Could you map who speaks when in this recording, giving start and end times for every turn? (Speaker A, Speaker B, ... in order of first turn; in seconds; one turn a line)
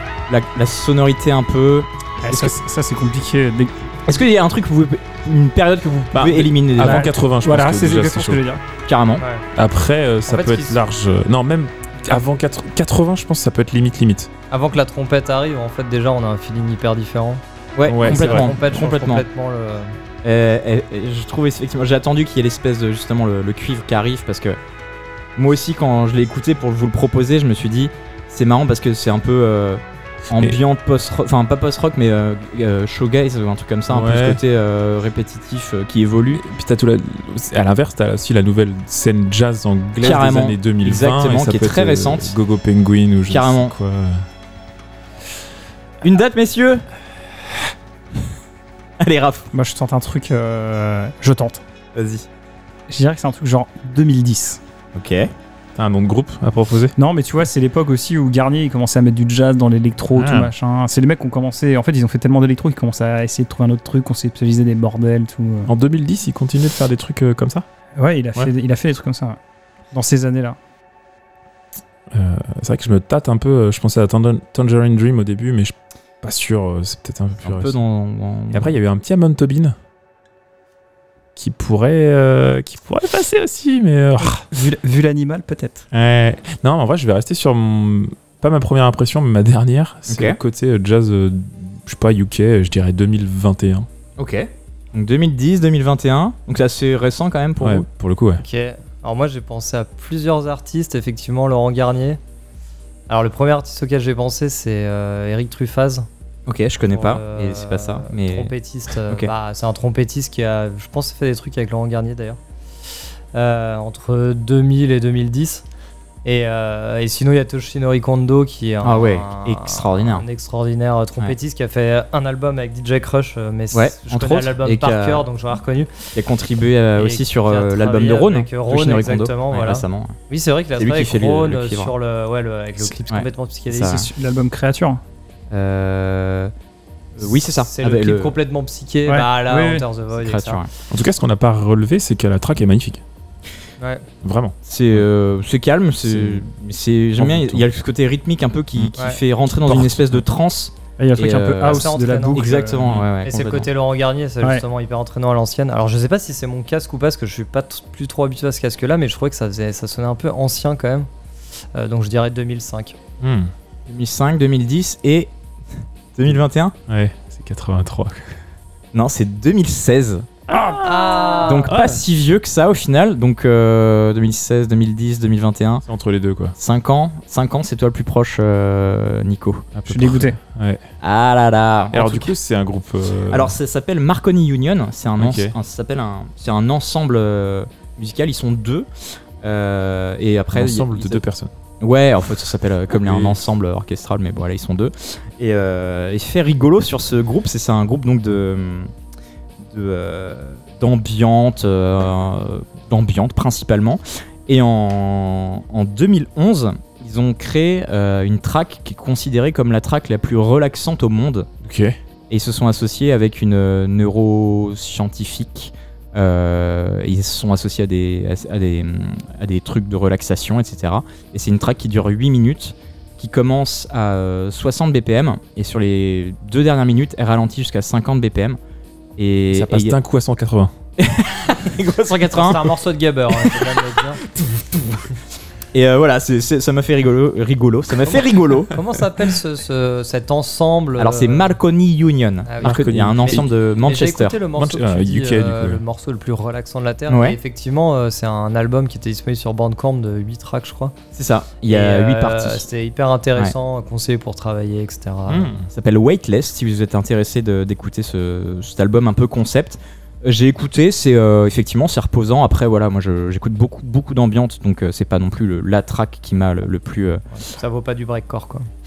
Speaker A: 0.3-2.5
Speaker B: 2.2-3.9
Speaker A: 4.1-7.1
Speaker C: 6.1-8.4
Speaker B: 6.8-8.6
Speaker A: 8.9-9.2
Speaker D: 9.2-9.4
Speaker C: 9.5-14.3
Speaker D: 10.3-10.8
Speaker D: 14.5-17.4
Speaker A: 17.8-19.2
Speaker C: 17.9-18.5
Speaker D: 18.0-19.9
Speaker A: 20.2-24.6
Speaker A: 25.4-36.4
Speaker C: 30.3-30.6
Speaker C: 33.9-34.4
Speaker C: 36.3-44.2
Speaker A: 40.0-42.3
Speaker A: 43.3-43.7
Speaker A: 46.0-46.8
Speaker A: 49.0-49.5
Speaker B: 49.5-51.6
Speaker A: 51.9-52.3
Speaker B: 52.9-54.6
Speaker A: 54.9-55.3
Speaker C: 55.8-56.9
Speaker B: 57.0-65.7
Speaker C: 60.1-60.5
Speaker C: 65.7-67.6
Speaker B: 68.0-69.4
Speaker B: 69.9-70.6
Speaker C: 72.1-77.8
Speaker A: 77.4-78.7
Speaker C: 78.5-79.8
Speaker C: 81.3-84.5
Speaker B: 84.2-85.8
Speaker C: 85.9-93.9
Speaker A: 90.1-90.4
Speaker A: 94.2-97.8
Speaker C: 97.6-98.4
Speaker D: 98.4-102.2
Speaker D: 103.1-106.1
Speaker A: 106.5-108.5
Speaker D: 106.9-112.4
Speaker D: 113.3-115.6
Speaker D: 116.2-126.0
Speaker A: 118.8-120.2
Speaker A: 123.7-125.3
Speaker A: 126.1-130.2
Speaker D: 127.0-134.1
Speaker A: 130.8-131.9
Speaker A: 132.8-134.1
Speaker B: 133.8-135.0
Speaker A: 135.5-136.5
Speaker A: 137.2-138.3
Speaker D: 137.2-140.6
Speaker B: 139.1-139.8
Speaker A: 140.2-140.7
Speaker C: 140.9-143.0
Speaker D: 143.8-144.1
Speaker C: 144.2-145.1
Speaker A: 144.6-153.7
Speaker C: 146.0-146.5
Speaker C: 147.2-147.7
Speaker C: 149.7-150.2
Speaker B: 151.0-153.0
Speaker D: 151.6-152.5
Speaker D: 153.2-161.1
Speaker D: 161.7-163.0
Speaker C: 163.2-163.5
Speaker A: 163.9-165.3
Speaker A: 166.1-166.7
Speaker C: 166.3-168.3
Speaker A: 168.9-170.4
Speaker B: 170.5-171.4
Speaker D: 170.8-171.7
Speaker A: 171.4-175.8
Speaker C: 171.7-172.0
Speaker C: 175.9-176.6
Speaker A: 176.6-179.7
Speaker C: 179.7-180.8
Speaker B: 179.9-180.4
Speaker A: 181.0-182.3
Speaker C: 181.9-183.6
Speaker A: 183.3-188.9
Speaker C: 185.2-185.5
Speaker A: 189.4-191.2
Speaker C: 190.5-191.5
Speaker A: 191.8-198.9
Speaker C: 193.0-193.4
Speaker A: 199.7-211.5
Speaker C: 211.6-211.9
Speaker A: 212.3-228.6
Speaker A: 229.2-230.0
Speaker C: 229.5-230.7
Speaker A: 231.0-232.7
Speaker D: 232.3-234.2
Speaker A: 233.3-235.1
Speaker A: 235.7-238.8
Speaker D: 238.0-241.6
Speaker A: 241.0-244.4
Speaker D: 242.4-250.9
Speaker C: 242.6-243.5
Speaker C: 244.5-245.8
Speaker A: 247.1-247.4
Speaker A: 251.1-252.7
Speaker D: 251.7-255.5
Speaker C: 255.3-255.7
Speaker A: 255.7-267.2
Speaker D: 267.4-268.7